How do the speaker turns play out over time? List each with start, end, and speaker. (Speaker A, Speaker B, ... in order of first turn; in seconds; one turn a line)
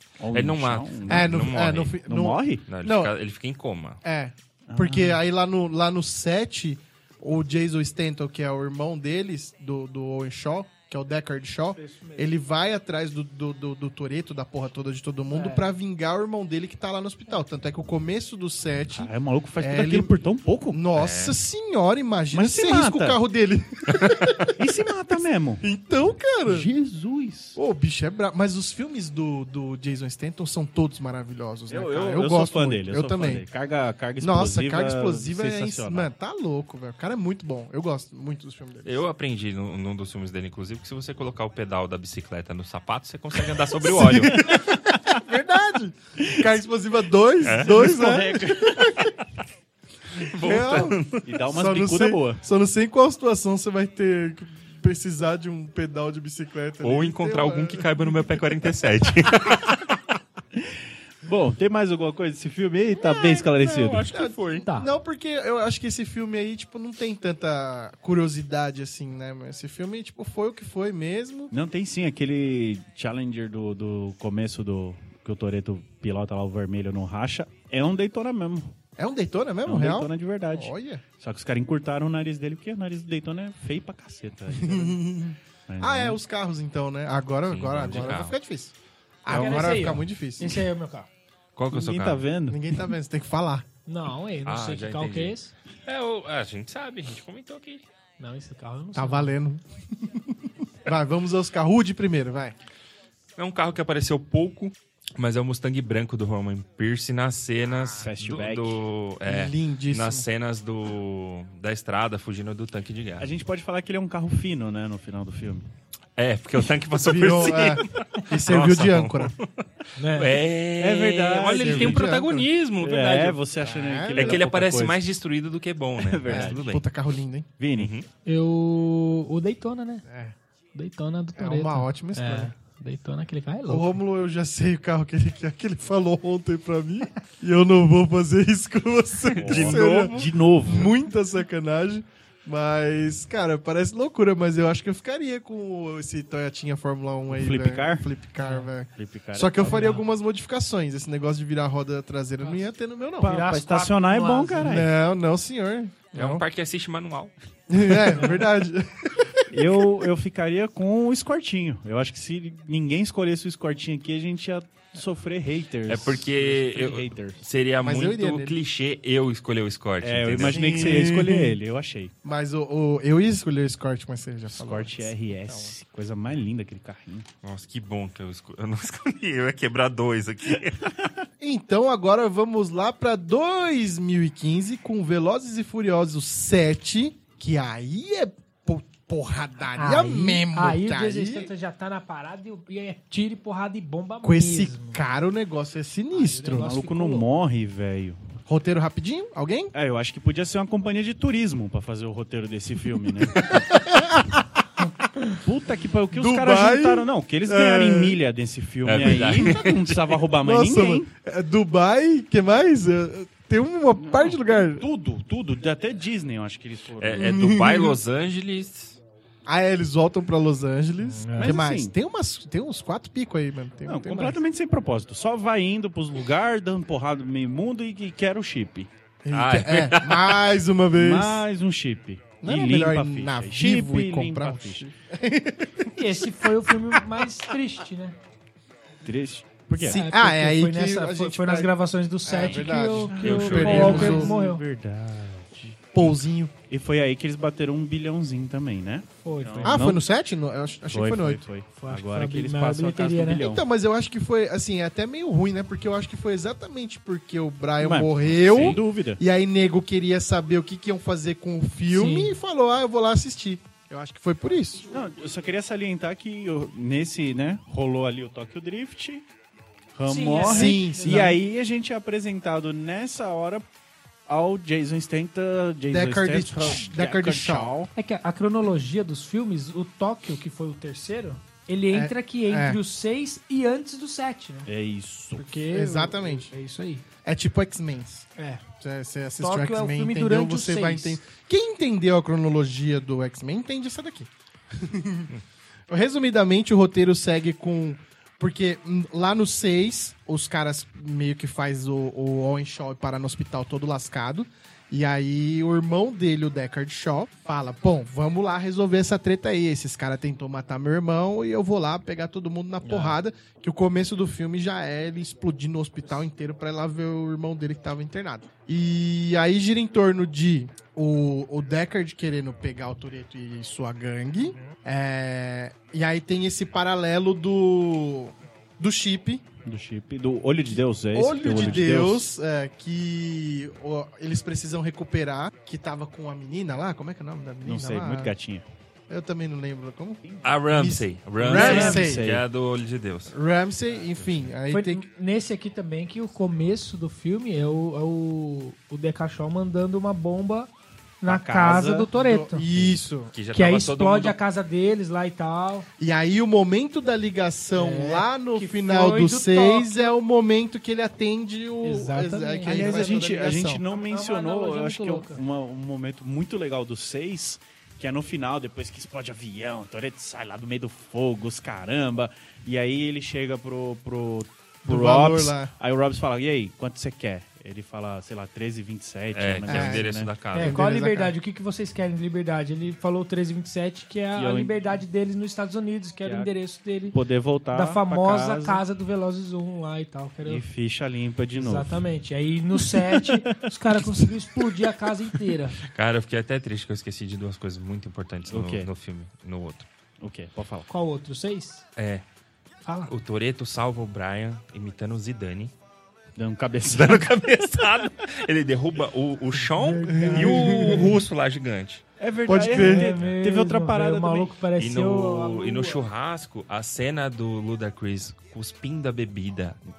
Speaker A: 0.2-1.3
Speaker B: 0.3-2.0
Speaker C: 1.1-3.1
Speaker A: 2.1-2.7
Speaker B: 2.7-4.0
Speaker C: 4.0-20.2
Speaker A: 4.7-5.2
Speaker D: 11.8-12.3
Speaker D: 15.3-15.7
Speaker A: 18.9-20.8
Speaker C: 20.7-24.7
Speaker B: 20.9-21.4
Speaker A: 22.3-23.2
Speaker A: 24.6-25.6
Speaker C: 25.6-26.7
Speaker A: 26.4-27.6
Speaker C: 27.6-33.5
Speaker A: 31.7-36.1
Speaker C: 34.2-39.0
Speaker B: 38.9-44.4
Speaker C: 43.8-49.1
Speaker A: 46.2-46.5
Speaker B: 47.4-47.9
Speaker A: 47.6-49.0
Speaker B: 50.2-51.3
Speaker C: 50.4-57.9
Speaker A: 51.2-52.4
Speaker B: 56.8-60.0
Speaker A: 60.6-64.1
Speaker B: 63.0-64.7
Speaker C: 63.9-71.5
Speaker D: 64.7-64.9
Speaker A: 71.5-78.7
Speaker C: 79.0-81.0
Speaker A: 79.7-85.0
Speaker C: 84.6-88.7
Speaker A: 85.7-86.2
Speaker B: 87.5-88.4
Speaker C: 89.2-90.6
Speaker D: 89.3-91.1
Speaker A: 89.3-89.8
Speaker B: 91.6-92.3
Speaker A: 91.7-92.6
Speaker C: 92.5-93.7
Speaker D: 93.9-95.5
Speaker B: 94.5-97.8
Speaker D: 98.2-99.3
Speaker C: 99.0-100.3
Speaker C: 100.8-102.6
Speaker B: 103.4-113.3
Speaker A: 107.9-108.8
Speaker C: 109.3-110.3
Speaker A: 113.2-115.7
Speaker B: 116.2-123.4
Speaker C: 117.0-119.3
Speaker D: 120.0-120.4
Speaker A: 120.8-122.1
Speaker C: 121.6-122.5
Speaker A: 122.8-125.0
Speaker C: 123.6-124.5
Speaker B: 124.2-126.8
Speaker A: 126.0-126.6
Speaker C: 126.3-127.5
Speaker A: 127.6-127.9
Speaker B: 127.8-128.1
Speaker D: 128.2-130.1
Speaker C: 130.1-130.3
Speaker D: 130.8-134.0
Speaker C: 131.4-132.5
Speaker C: 133.7-153.4
Speaker B: 139.4-140.2
Speaker A: 139.4-140.9
Speaker A: 147.3-148.1
Speaker D: 148.4-148.7
Speaker A: 148.9-149.9
Speaker D: 149.6-150.0
Speaker D: 153.2-154.8
Speaker A: 153.2-154.9
Speaker C: 154.6-156.4
Speaker B: 156.1-157.3
Speaker C: 157.7-159.8
Speaker D: 158.1-158.4
Speaker A: 159.5-167.4
Speaker B: 165.9-171.0
Speaker C: 167.8-168.6
Speaker A: 170.0-172.1
Speaker C: 170.4-171.6
Speaker C: 172.2-175.8
Speaker A: 174.5-177.3
Speaker B: 177.4-180.9
Speaker C: 181.4-191.5
Speaker D: 189.8-195.0
Speaker C: 194.2-196.8
Speaker D: 196.1-197.3
Speaker A: 196.5-198.2
Speaker C: 198.5-199.7
Speaker A: 199.7-203.6
Speaker C: 203.5-204.4
Speaker A: 205.4-211.1
Speaker C: 206.1-208.2
Speaker B: 208.8-210.1
Speaker C: 210.4-214.9
Speaker A: 214.0-217.3
Speaker B: 217.0-219.0
Speaker C: 217.2-218.0
Speaker C: 219.5-224.4
Speaker D: 221.0-221.6
Speaker A: 221.3-221.9
Speaker A: 223.8-228.9
Speaker C: 229.2-231.5
Speaker B: 229.3-230.6
Speaker A: 230.9-234.8
Speaker C: 232.4-236.0
Speaker D: 235.9-238.2
Speaker A: 239.0-240.0
Speaker C: 239.8-241.7
Speaker D: 239.8-244.6
Speaker C: 242.2-244.3
Speaker A: 243.1-250.1
Speaker B: 243.2-244.2
Speaker C: 245.9-246.6
Speaker D: 249.2-249.8
Speaker C: 249.7-251.4
Speaker A: 250.9-253.6
Speaker D: 251.8-253.4
Speaker C: 253.4-264.9
Speaker A: 257.8-259.2
Speaker B: 258.2-258.8
Speaker D: 261.9-262.4
Speaker A: 264.9-269.2
Speaker A: 269.9-273.6
Speaker D: 270.1-271.4
Speaker C: 270.4-271.4
Speaker A: 274.3-277.9
Speaker C: 275.9-277.8
Speaker D: 277.9-284.7
Speaker C: 281.9-282.8
Speaker A: 284.7-285.6
Speaker D: 285.4-287.0
Speaker C: 285.7-286.5
Speaker C: 287.2-288.3
Speaker D: 288.4-288.6
Speaker C: 288.8-295.3
Speaker D: 289.4-291.2
Speaker C: 295.9-329.5
Speaker D: 312.9-313.1
Speaker A: 329.6-332.3
Speaker C: 331.1-338.3
Speaker A: 337.6-338.6
Speaker C: 339.1-342.3
Speaker B: 340.4-343.3
Speaker A: 341.4-342.4
Speaker D: 341.5-342.0
Speaker C: 343.3-345.0
Speaker D: 344.7-352.6
Speaker A: 351.3-352.1
Speaker C: 352.1-353.3
Speaker B: 353.3-354.4
Speaker D: 353.5-355.9
Speaker C: 356.0-363.8
Speaker D: 357.7-360.1
Speaker D: 361.8-363.3
Speaker A: 362.6-380.3
Speaker D: 363.9-365.4
Speaker C: 374.9-375.7
Speaker B: 379.3-380.8
Speaker C: 379.7-381.3
Speaker D: 380.5-387.2
Speaker A: 384.4-384.8
Speaker A: 386.2-386.5
Speaker A: 387.1-388.8
Speaker D: 387.7-390.6
Speaker A: 390.4-392.1
Speaker D: 391.6-395.8
Speaker A: 392.8-393.7
Speaker B: 395.9-399.9
Speaker A: 398.5-398.9
Speaker A: 400.2-400.9
Speaker D: 400.9-401.9
Speaker B: 402.0-402.2
Speaker D: 402.9-403.1
Speaker B: 403.1-405.7
Speaker A: 406.4-407.9
Speaker B: 406.9-412.0
Speaker D: 409.8-411.2
Speaker C: 410.1-411.2
Speaker A: 412.2-414.6
Speaker C: 412.5-413.1
Speaker D: 412.6-416.0
Speaker B: 414.8-419.8